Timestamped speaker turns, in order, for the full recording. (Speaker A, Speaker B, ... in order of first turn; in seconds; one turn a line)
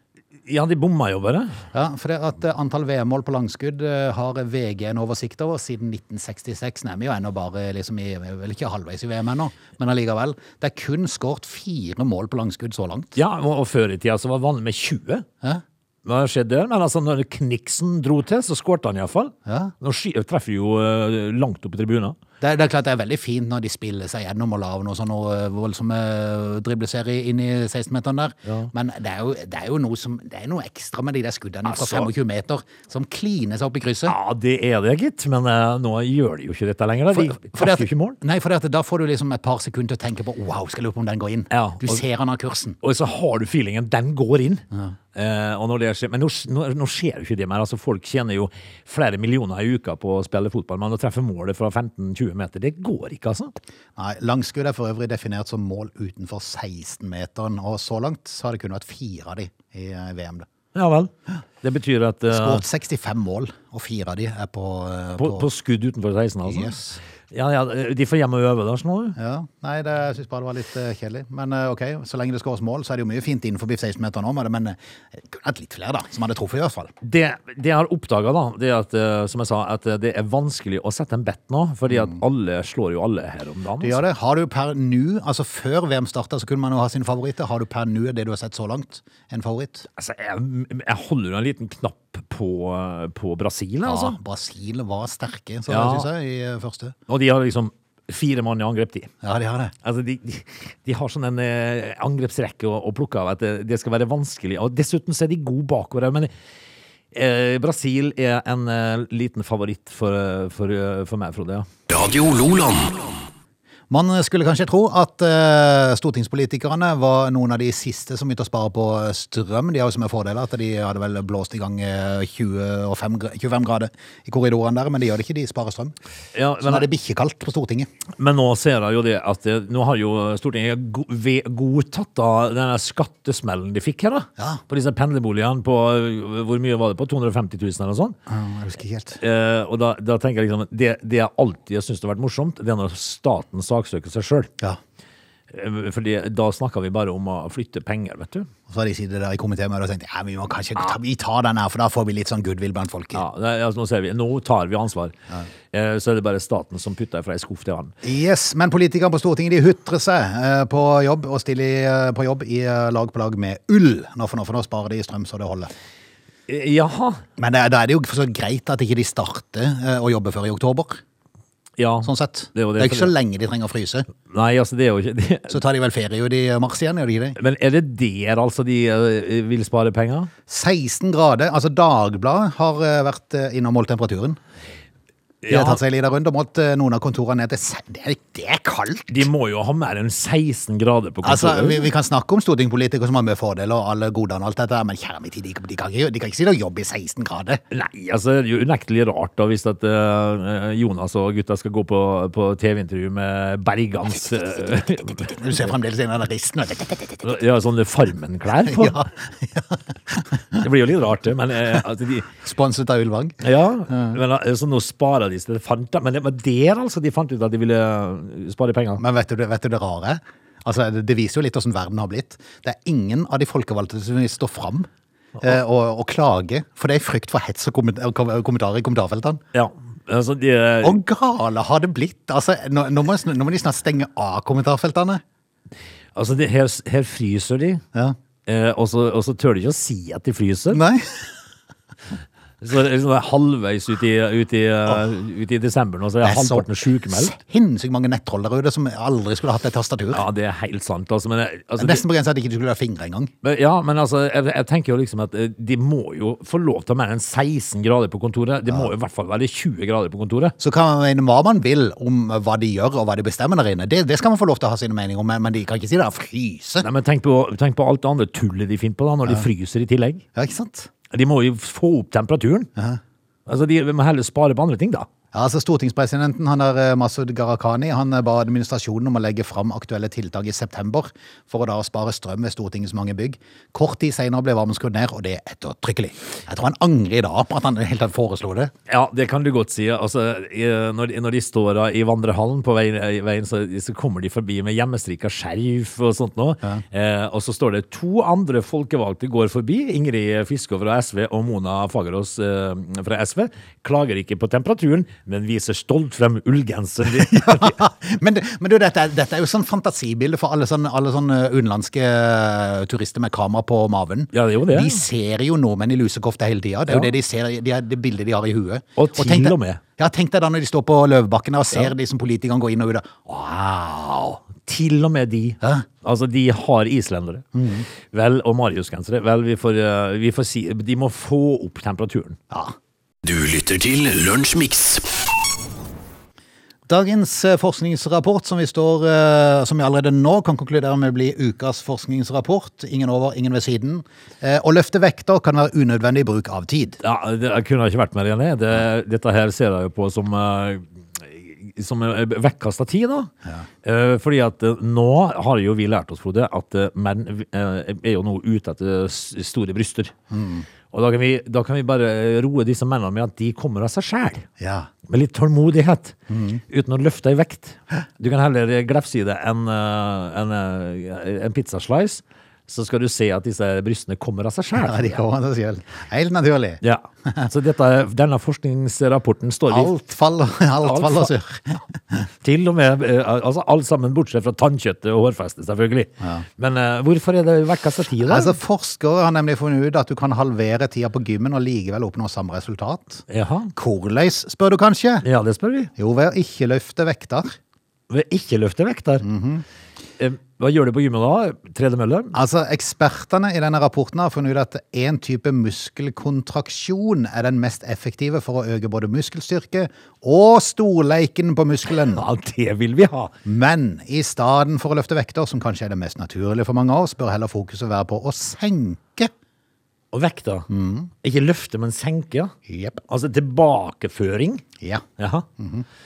Speaker A: 0.5-1.6
Speaker B: 1.7-13.2
Speaker A: 13.2-15.3
Speaker A: 16.1-22.2
Speaker B: 19.5-19.7
Speaker B: 22.4-34.1
Speaker A: 31.7-32.1
Speaker A: 34.1-38.2
Speaker B: 37.1-42.8
Speaker A: 41.5-42.0
Speaker A: 42.8-44.6
Speaker A: 45.1-53.5
Speaker B: 54.0-60.5
Speaker A: 60.8-62.6
Speaker B: 62.3-65.5
Speaker A: 65.2-66.8
Speaker B: 66.5-67.0
Speaker A: 67.3-69.2
Speaker B: 69.2-76.9
Speaker A: 77.0-84.0
Speaker B: 81.9-82.2
Speaker B: 83.8-89.9
Speaker A: 90.0-94.2
Speaker B: 93.8-97.0
Speaker A: 95.7-96.1
Speaker A: 97.1-99.1
Speaker B: 99.2-99.7
Speaker A: 99.8-106.3
Speaker A: 107.1-111.7
Speaker C: 111.9-113.2
Speaker B: 113.9-126.0
Speaker A: 126.3-126.9
Speaker B: 126.6-127.9
Speaker A: 128.2-138.2
Speaker B: 138.3-139.2
Speaker A: 139.2-144.5
Speaker A: 145.5-148.5
Speaker B: 148.7-153.2
Speaker A: 153.1-155.2
Speaker A: 155.7-157.9
Speaker B: 158.0-165.7
Speaker A: 166.5-167.2
Speaker B: 167.4-171.0
Speaker A: 171.8-173.1
Speaker B: 172.0-174.1
Speaker A: 174.3-175.6
Speaker B: 175.5-177.4
Speaker A: 177.4-180.3
Speaker B: 180.5-184.4
Speaker A: 185.4-185.8
Speaker B: 185.5-189.3
Speaker A: 189.1-191.9
Speaker B: 191.2-197.6
Speaker A: 197.7-205.7
Speaker B: 205.2-207.4
Speaker A: 207.2-209.0
Speaker B: 208.7-210.6
Speaker A: 210.6-212.3
Speaker B: 212.4-214.2
Speaker A: 213.4-219.0
Speaker B: 219.0-224.9
Speaker B: 225.4-229.4
Speaker A: 229.5-231.0
Speaker B: 230.8-235.2
Speaker A: 236.2-237.8
Speaker A: 238.5-240.8
Speaker B: 240.7-241.3
Speaker A: 242.6-247.3
Speaker B: 246.2-250.2
Speaker A: 250.1-252.0
Speaker B: 251.8-253.3
Speaker A: 253.4-260.6
Speaker B: 260.6-266.9
Speaker A: 266.8-270.2
Speaker B: 270.4-270.9
Speaker A: 271.1-272.7
Speaker A: 273.5-275.1
Speaker B: 275.3-288.7
Speaker A: 288.9-307.8
Speaker B: 307.1-324.4
Speaker A: 314.3-315.0
Speaker A: 319.0-319.8
Speaker A: 324.6-327.5
Speaker B: 327.6-327.9
Speaker A: 328.1-332.4
Speaker C: 333.2-335.2
Speaker B: 336.9-347.0
Speaker A: 347.0-353.3
Speaker A: 353.8-360.1
Speaker B: 360.3-360.7
Speaker A: 360.9-364.5
Speaker B: 364.6-364.9
Speaker A: 365.1-366.2
Speaker B: 366.3-366.6
Speaker A: 366.7-375.2
Speaker B: 374.8-376.8
Speaker A: 376.8-379.9
Speaker B: 379.7-382.2
Speaker A: 380.8-381.3
Speaker A: 382.4-388.6
Speaker B: 388.2-395.2
Speaker A: 393.3-393.7
Speaker A: 395.2-395.9
Speaker B: 396.0-397.6
Speaker A: 398.1-399.2
Speaker B: 399.2-399.6
Speaker A: 400.2-402.4
Speaker B: 402.3-412.2
Speaker A: 412.0-413.3
Speaker B: 413.4-419.3
Speaker A: 420.1-420.7
Speaker B: 420.7-421.1
Speaker A: 421.2-422.5
Speaker B: 422.7-423.0
Speaker A: 423.1-424.6
Speaker A: 425.2-425.5
Speaker B: 425.6-425.9